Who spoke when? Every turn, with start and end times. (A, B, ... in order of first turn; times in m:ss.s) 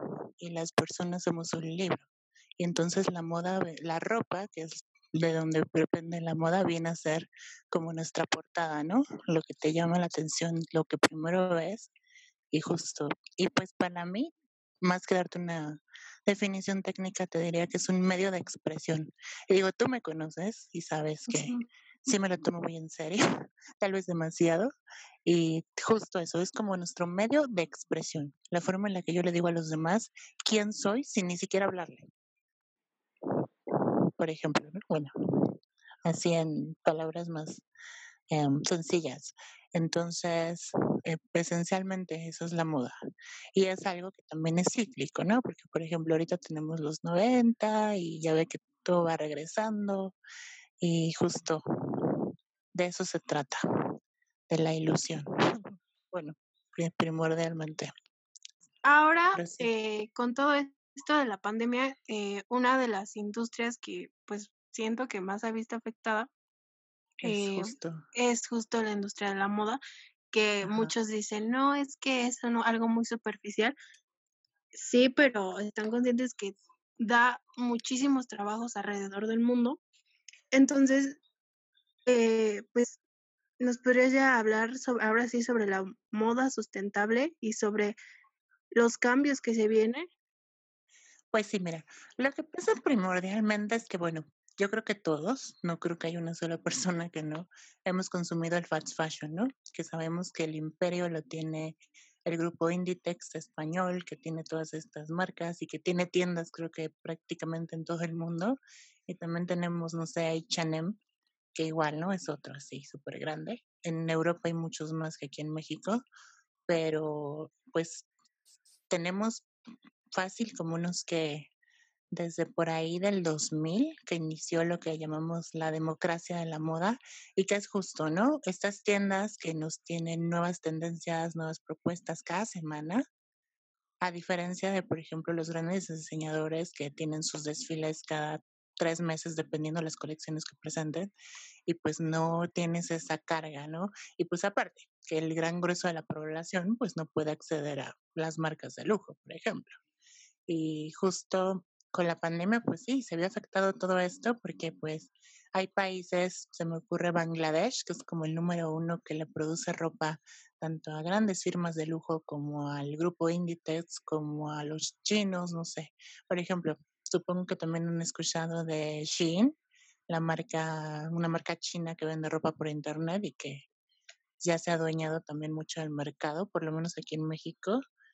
0:00.4-0:02.0 A
0:02.6-0:11.9 A
0:12.5-0:23.2 A
0:21.3-0:21.6 B
0:23.8-0:24.7 A
0:25.2-0:32.0 A
0:33.7-0:37.6 A
0:38.3-0:43.0 A
0:43.5-0:50.2 A
0:50.8-0:53.6 A
0:54.5-0:55.3 A
0:56.1-0:57.9 A
0:58.8-1:06.3 B
0:59.3-0:59.7 A
1:07.2-1:08.0 A
1:07.2-1:13.7 B
1:10.6-1:10.9 A
1:14.7-1:19.8 B
1:20.5-1:21.2 B
1:22.1-1:23.0 B
1:23.6-1:28.0 B
1:28.7-1:30.1 B
1:31.3-1:51.0 A
1:51.5-1:56.0 A
1:56.7-1:58.1 A
1:58.9-1:59.5 A
2:00.1-2:01.5 A
2:02.1-2:13.0 A
2:14.0-2:21.1 A
2:21.6-2:29.7 A
2:30.5-2:49.5 A
2:50.1-2:53.7 A
2:54.4-2:57.8 A